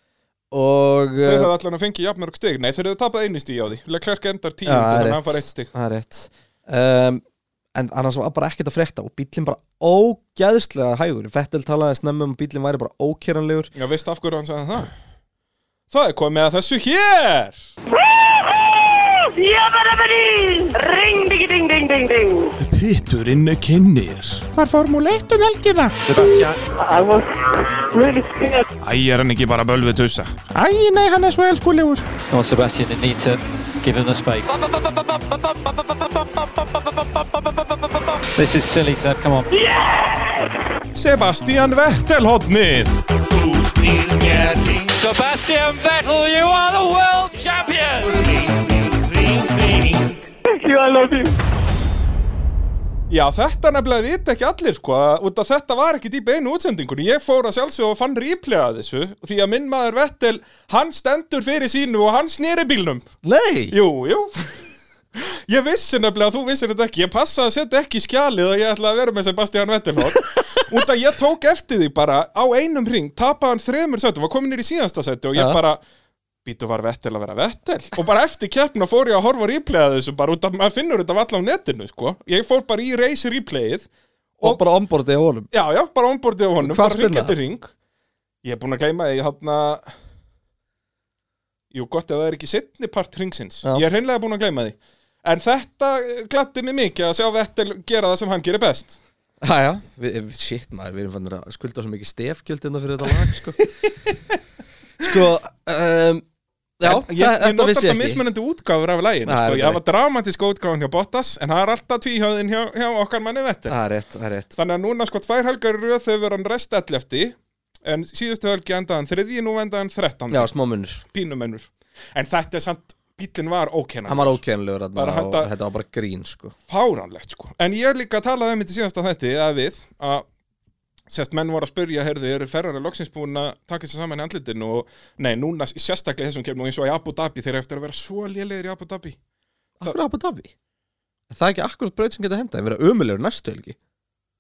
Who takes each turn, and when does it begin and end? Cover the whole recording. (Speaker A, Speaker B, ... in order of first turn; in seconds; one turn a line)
Speaker A: 0.5-1.5
Speaker B: 1.2-5.7
Speaker A: 4.7-7.2
Speaker A: 7.8-13.7
Speaker B: 13.8-14.9
Speaker B: 15.9-17.7
Speaker C: 17.9-22.6
Speaker B: 22.6-26.5
Speaker D: 26.1-26.6
Speaker C: 26.8-28.7
Speaker B: 28.8-32.1
Speaker D: 32.3-39.5
Speaker C: 39.5-40.8
Speaker B: 40.9-43.0
Speaker D: 43.2-50.3
Speaker C: 50.5-51.4
Speaker B: 53.1-63.1
Speaker A: 63.2-63.8
Speaker B: 63.7-75.8
Speaker A: 75.3-75.6
Speaker B: 76.5-84.6
Speaker A: 84.4-85.5
Speaker B: 85.5-87.7
Speaker A: 86.6-87.4
Speaker B: 88.4-89.9
Speaker B: 91.7-99.0
Speaker A: 99.4-103.7
Speaker B: 103.2-103.7
Speaker A: 105.0-106.2
Speaker A: 106.8-108.2
Speaker B: 106.8-113.8
Speaker A: 109.3-110.0
Speaker A: 113.7-114.5
Speaker B: 114.6-120.5
Speaker A: 120.3-121.0
Speaker B: 121.0-124.4
Speaker A: 124.1-126.5
Speaker B: 125.0-125.5
Speaker B: 126.7-130.3
Speaker B: 131.1-139.2
Speaker A: 139.8-140.5
Speaker A: 141.3-143.8